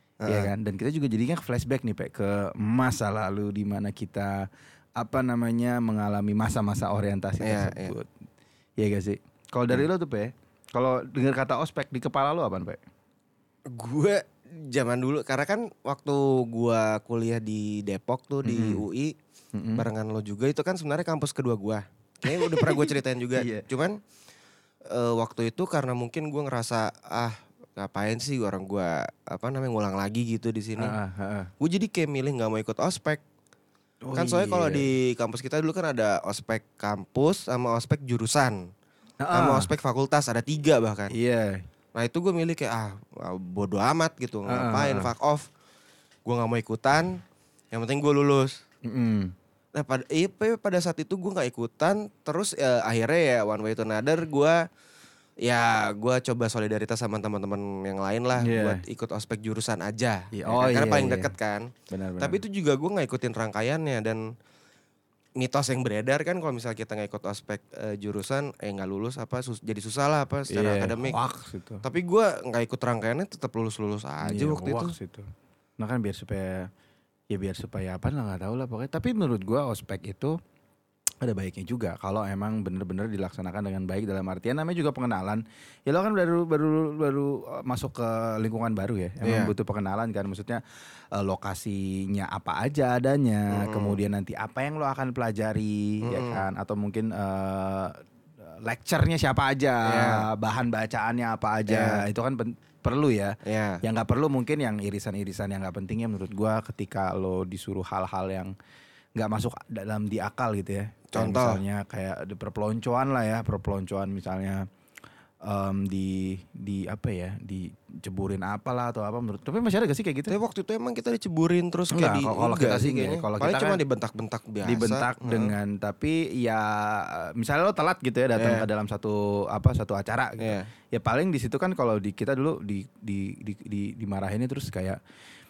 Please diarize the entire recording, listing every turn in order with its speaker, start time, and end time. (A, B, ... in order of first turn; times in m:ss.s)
0:00.2-0:00.5 A
0:00.3-0:08.1 B
0:07.4-0:07.9 A
0:08.8-0:12.8 B
0:13.7-0:19.1 A
0:18.4-0:18.8 B
0:19.5-0:19.8 B
0:19.8-0:24.0 A
0:22.3-0:23.7 B
0:24.9-0:30.9 A
0:30.8-0:31.5 B
0:31.6-0:33.2 A
0:34.0-0:34.9 B
0:34.1-0:38.6 A
0:39.2-0:39.7 B
0:39.3-0:41.1 A
0:41.1-0:41.6 B
0:42.0-0:45.5 A
0:44.4-0:45.1 B
0:46.2-0:48.6 A
0:48.8-0:49.3 B
0:49.7-0:54.6 A
0:55.4-1:04.2 A
0:58.4-0:58.8 B
1:00.3-1:01.3 B
1:01.9-1:02.4 B
1:05.4-1:11.2 A
1:10.5-1:11.8 B
1:11.8-1:15.0 A
1:14.2-1:15.3 B
1:15.8-1:16.7 B
1:17.3-1:20.4 B
1:21.2-1:30.6 B
1:29.2-1:29.5 A
1:31.1-1:48.5 B
1:33.5-1:34.0 A
1:36.0-1:36.4 A
1:39.8-1:40.3 A
1:41.7-1:42.0 A
1:43.4-1:43.8 A
1:49.2-1:54.6 B
1:51.1-1:51.6 A
1:55.4-2:00.3 B
2:00.3-2:05.6 A
2:01.9-2:03.8 B
2:04.6-2:15.0 B
2:08.4-2:08.6 A
2:10.4-2:10.7 A